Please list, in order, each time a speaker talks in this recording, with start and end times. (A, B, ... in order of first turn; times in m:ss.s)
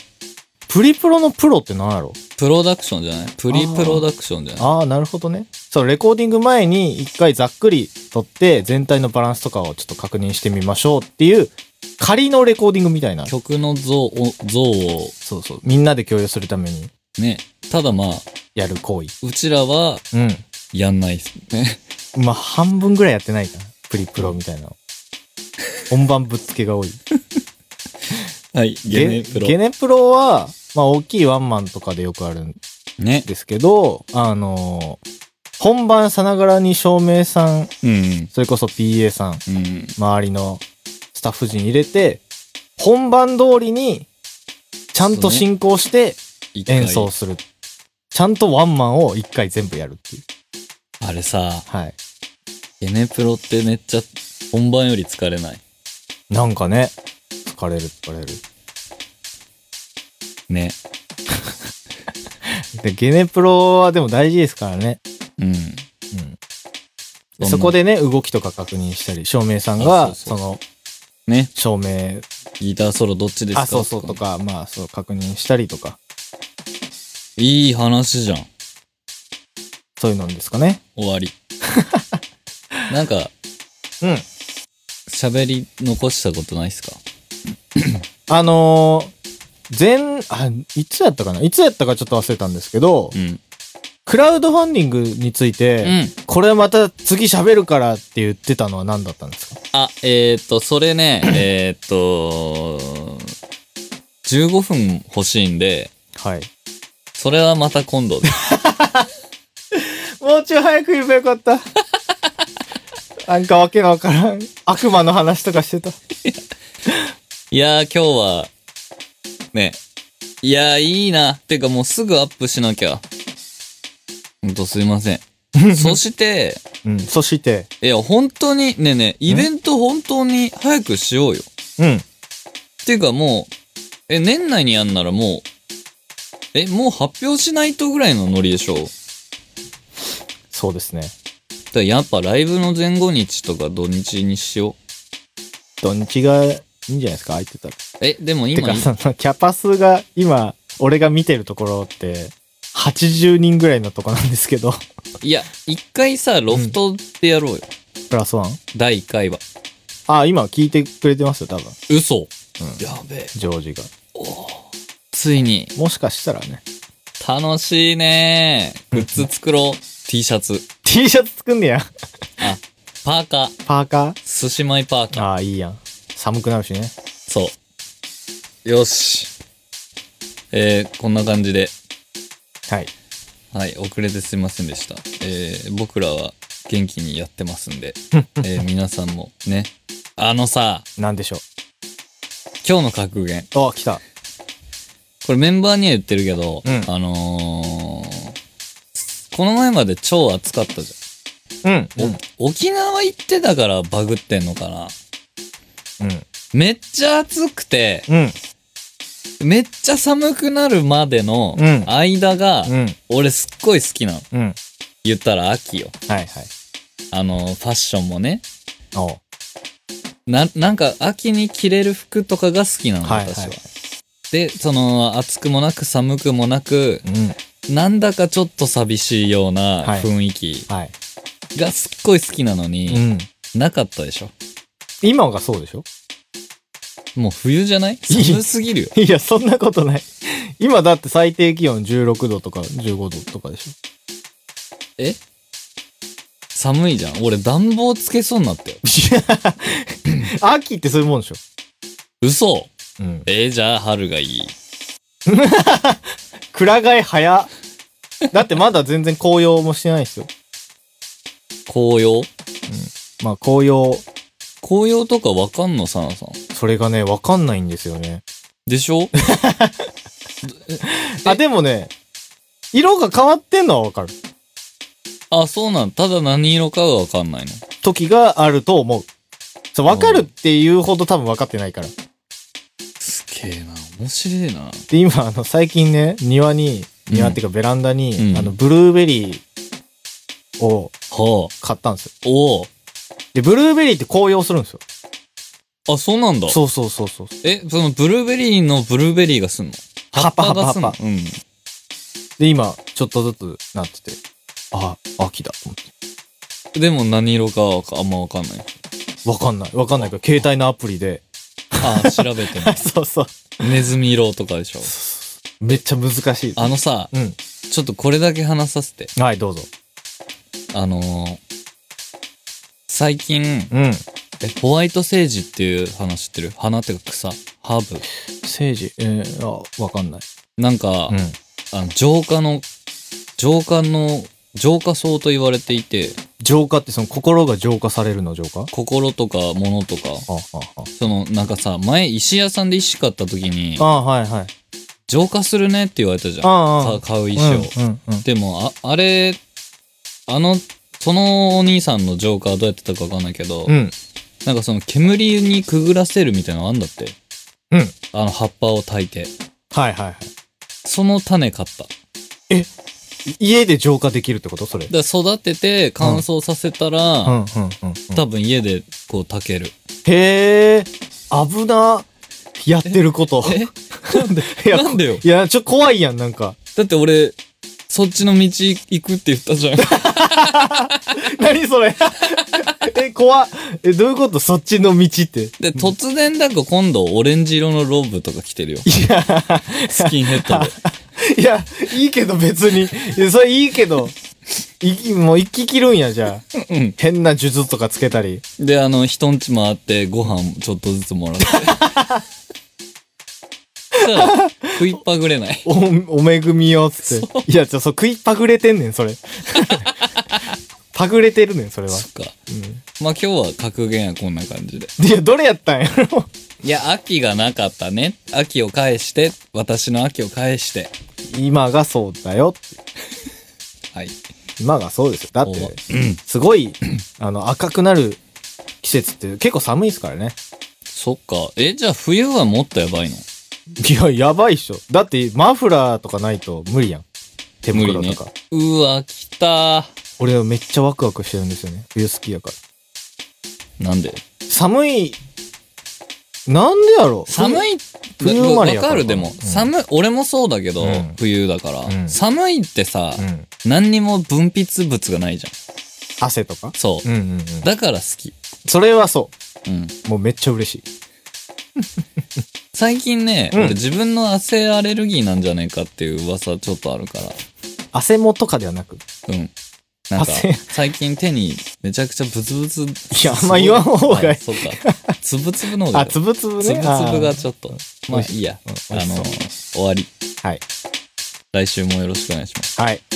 0:00.7-0:02.2 A
0:02.4-0:04.7 B
0:03.5-0:04.0 A
0:04.6-0:13.3 A
0:13.2-0:15.1 B
0:15.2-0:16.9 A
0:17.2-0:18.2 B
0:18.5-0:19.1 A
0:19.2-0:20.0 B
0:20.1-0:20.4 A
0:20.7-0:21.8 B
0:22.1-0:24.8 A
0:25.9-0:27.0 A
0:28.5-0:29.6 B
0:28.8-0:32.6 A
0:33.0-0:33.3 B
0:33.2-0:35.0 A
0:35.6-0:37.7 A
0:37.8-0:38.3 B
0:38.3-0:39.4 A
0:39.5-0:39.9 B
0:40.0-0:40.6 A
0:41.1-0:42.2 A
0:42.8-0:44.1 A
0:44.9-0:47.4 A
0:45.0-0:45.4 B
0:46.5-0:47.1 B
0:48.1-0:50.2 A
0:51.0-0:51.6 B
0:51.7-0:52.0 A
0:52.8-0:55.6 B
0:56.3-0:56.9 A
0:57.4-0:58.4 A
1:00.5-1:00.8 B
1:02.7-1:05.0 A
1:05.4-1:05.8 B
1:06.1-1:06.4 A
1:07.4-1:10.6 A
1:07.4-1:07.8 B
1:09.8-1:10.4 B
1:11.2-1:11.5 B
1:11.6-1:12.2 A
1:12.6-1:14.2 B
1:13.5-1:16.0 A
1:17.4-1:18.5 B
1:20.0-1:20.8 A
1:21.0-1:21.3 B
1:21.7-1:22.2 A
1:22.9-1:23.3 B
1:25.1-1:27.0 B
1:27.8-1:28.0 B
1:28.3-1:29.1 A
1:29.7-1:33.1 A
1:33.1-1:33.4 B
1:34.0-1:39.6 A
1:35.8-1:36.1 B
1:39.7-1:43.3 B
1:44.2-1:45.9 B
1:46.2-1:46.5 A
1:47.2-1:48.3 B
1:48.3-1:49.1 A
1:49.7-1:51.6 A
1:53.3-1:56.0 A
1:57.5-1:58.5 B
1:59.5-1:59.8 B
2:00.4-2:03.0 B
2:04.4-2:06.6 B
2:05.5-2:06.0 A
2:06.8-2:07.7 A
2:07.8-2:11.5 B
2:11.8-2:12.0 A
2:12.8-2:13.5 B
2:14.1-2:15.4 B
2:16.5-2:18.9 B
2:20.5-2:21.1 A
2:21.7-2:24.8 B
2:25.8-2:27.8 A
2:28.0-2:28.9 B
2:28.5-2:34.8 A
2:35.2-2:37.7 B
2:36.5-2:36.8 A
2:38.1-2:38.6 A
2:38.7-2:39.4 B
2:40.1-2:41.8 A
2:41.9-2:43.3 B
2:43.3-2:43.9 A
2:44.1-2:45.7 B
2:45.7-2:46.6 A
2:47.2-2:50.6 B
2:48.9-2:49.2 A
2:50.8-2:51.9 A
2:52.4-2:53.6 B
2:53.7-2:54.2 A
2:54.2-2:55.2 B
2:55.1-2:56.9 A
2:57.3-2:57.6 B
2:58.6-2:59.3 B
3:00.5-3:01.7 B
3:03.5-3:10.8 B
3:08.1-3:08.5 A
3:11.0-3:11.4 A
3:12.6-3:13.5 B
3:13.5-3:14.0 A
3:15.2-3:18.3 B
3:16.6-3:16.9 A
3:18.9-3:21.0 B
3:21.6-3:22.2 A
3:22.0-3:24.9 B
3:26.0-3:26.3 A
3:26.5-3:28.0 B
3:28.1-3:28.3 A
3:29.4-3:34.2 B
3:31.5-3:31.9 A
3:32.6-3:33.0 A
3:35.0-3:35.9 B
3:36.1-3:36.5 A
3:37.1-3:38.4 B
3:38.9-3:39.2 A
3:40.2-3:43.6 B
3:43.0-3:43.6 A
3:44.3-3:47.0 B
3:47.0-3:47.4 A
3:47.7-3:50.7 B
3:49.8-3:50.1 A
3:51.5-3:54.3 B
3:52.9-3:53.3 A
3:55.0-3:55.8 A
3:57.1-3:58.9 B
3:58.1-4:03.7 A
4:06.5-4:08.8 B
4:08.8-4:11.4 A
4:12.2-4:12.7 B
4:13.0-4:13.2 A
4:13.2-4:14.5 B
4:15.2-4:17.5 A
4:18.3-4:20.3 A
4:21.7-4:22.3 B
4:22.7-4:24.0 A
4:24.6-4:26.4 B
4:26.5-4:28.2 A
4:28.6-4:29.1 B
4:29.2-4:29.8 A
4:30.5-4:31.4 B
4:30.8-4:31.9 A
4:32.7-4:34.1 A
4:35.3-4:37.6 B
4:37.8-4:39.1 A
4:39.7-4:41.9 A
4:39.9-4:40.3 B
4:43.0-4:44.8 B
4:44.9-4:49.4 A
4:47.1-4:47.4 B
4:48.2-4:48.5 B
4:50.6-4:50.9 A
4:51.1-4:51.5 B
4:51.6-4:52.1 A
4:52.2-4:52.7 B
4:53.3-4:54.8 A
4:55.9-4:56.6 B
4:56.5-4:57.3 A
4:57.4-5:01.4 B
5:00.1-5:01.0 A
5:02.4-5:04.2 A
5:04.7-5:05.9 A
5:06.7-5:08.7 B
5:09.2-5:13.6 A
5:11.8-5:12.8 B
5:13.6-5:14.9 B
5:14.8-5:17.4 A
5:16.6-5:17.1 B
5:17.7-5:19.1 B
5:19.2-5:19.7 A
5:20.7-5:21.4 B
5:22.9-5:23.7 B
5:23.7-5:24.0 A
5:24.4-5:28.0 B
5:28.4-5:30.2 A
5:30.6-5:31.2 B
5:31.1-5:31.4 A
5:31.7-5:32.6 B
5:33.4-5:36.2 B
5:36.4-5:38.7 A
5:38.7-5:40.3 B
5:40.3-5:40.9 A
5:41.0-5:43.8 B
5:43.8-5:44.5 A
5:45.1-5:47.7 B
5:46.4-5:48.2 A
5:48.2-5:49.4 B
5:50.3-5:53.8 B
5:53.7-5:53.9 A
5:54.4-5:57.2 B
5:58.1-5:59.3 B
5:59.7-6:00.3 A
6:00.8-6:01.9 B
6:03.4-6:04.9 A
6:04.9-6:07.4 B
6:07.2-6:08.2 A
6:08.1-6:09.7 B
6:10.0-6:12.0 A
6:12.6-6:16.6 A
6:12.8-6:15.2 B
6:16.8-6:17.4 B
6:17.9-6:20.9 B
6:19.8-6:25.9 A
6:25.6-6:28.8 B
6:28.8-6:34.1 A
6:29.9-6:30.7 B
6:34.8-6:36.4 A
6:36.5-6:37.0 B
6:37.0-6:38.4 A
6:38.6-6:41.9 B
6:41.5-6:42.2 A
6:43.9-6:45.6 B
6:43.9-6:44.8 A
6:45.6-6:49.9 A
6:47.0-6:47.5 B
6:49.5-6:50.5 B
6:50.9-6:52.8 A
6:51.9-6:52.3 B
6:53.0-6:54.9 B
6:55.0-6:56.3 A
6:56.6-7:00.9 B
7:01.2-7:02.8 A
7:04.6-7:08.2 A
7:05.4-7:06.2 B
7:08.8-7:10.4 A
7:10.9-7:13.2 B
7:13.8-7:17.0 A
7:17.6-7:18.3 A
7:17.7-7:19.9 B
7:20.2-7:22.6 A
7:23.8-7:24.2 B
7:24.5-7:25.2 A
7:26.5-7:27.6 A
7:27.3-7:35.5 B
7:28.2-7:29.7 A
7:30.8-7:31.2 A
7:31.8-7:32.2 A
7:33.2-7:33.5 A
7:36.2-7:37.7 A
7:36.8-7:37.0 B
7:37.6-7:38.3 B
7:38.6-7:39.3 A
7:39.6-7:39.9 B
7:40.0-7:40.8 A
7:42.7-7:47.4 B
7:43.5-7:43.8 A
7:47.9-7:49.0 A
7:49.3-7:49.5 B
7:50.1-8:00.1 B
7:50.2-7:50.7 A
7:53.1-7:55.1 A
7:55.9-7:57.4 A
7:58.1-7:59.3 A
8:01.5-8:02.7 B
8:02.8-8:03.0 A